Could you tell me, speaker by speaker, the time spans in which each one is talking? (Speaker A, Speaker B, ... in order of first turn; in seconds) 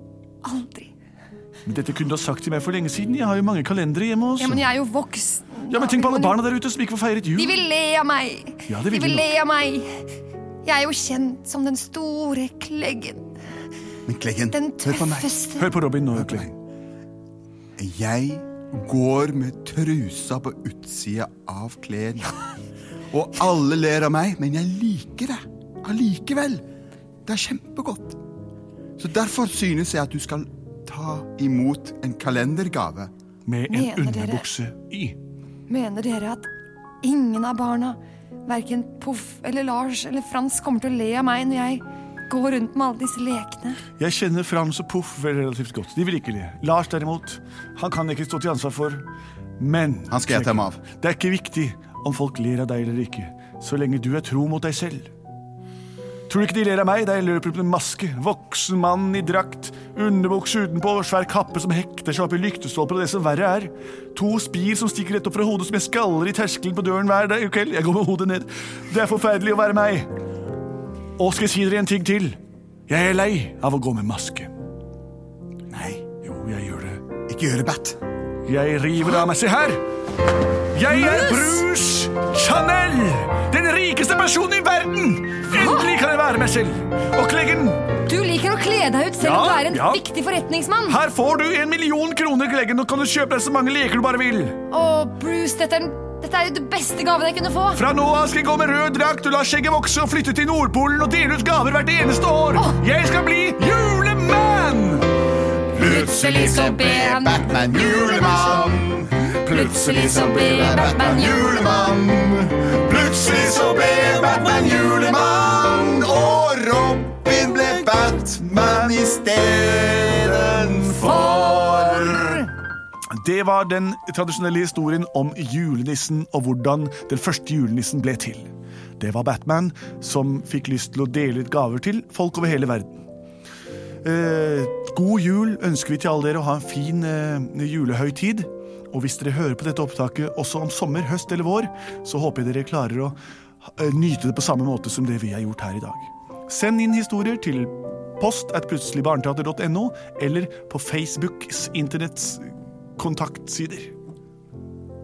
Speaker A: 0.4-0.9, 4.4-6.4, 7.3-13.3, 14.5-15.7, 33.7-34.5, 35.7-36.5, 37.0-43.8, 80.9-81.6, 85.5-85.9, 88.0-91.0, 94.7-97.8, 105.8-108.6, 109.5-111.4
Speaker B: 1.6-4.7, 5.7-7.6, 8.7-9.4, 15.6-16.5, 33.5-35.2, 44.0-49.1, 49.6-55.1, 56.3-70.1, 71.2-74.5, 76.2-77.0, 78.4-79.8, 80.7-87.9, 89.2-90.1, 90.9-94.6, 97.7-105.1, 109.3-110.2, 123.1-132.9, 134.0-143.2, 143.8-153.9
Speaker C: 14.1-15.4, 16.1-16.5, 17.8-22.5, 23.1-26.6, 27.2-28.2, 29.0-33.1, 50.1-50.8, 75.7-76.0, 77.3-78.0, 105.7-122.5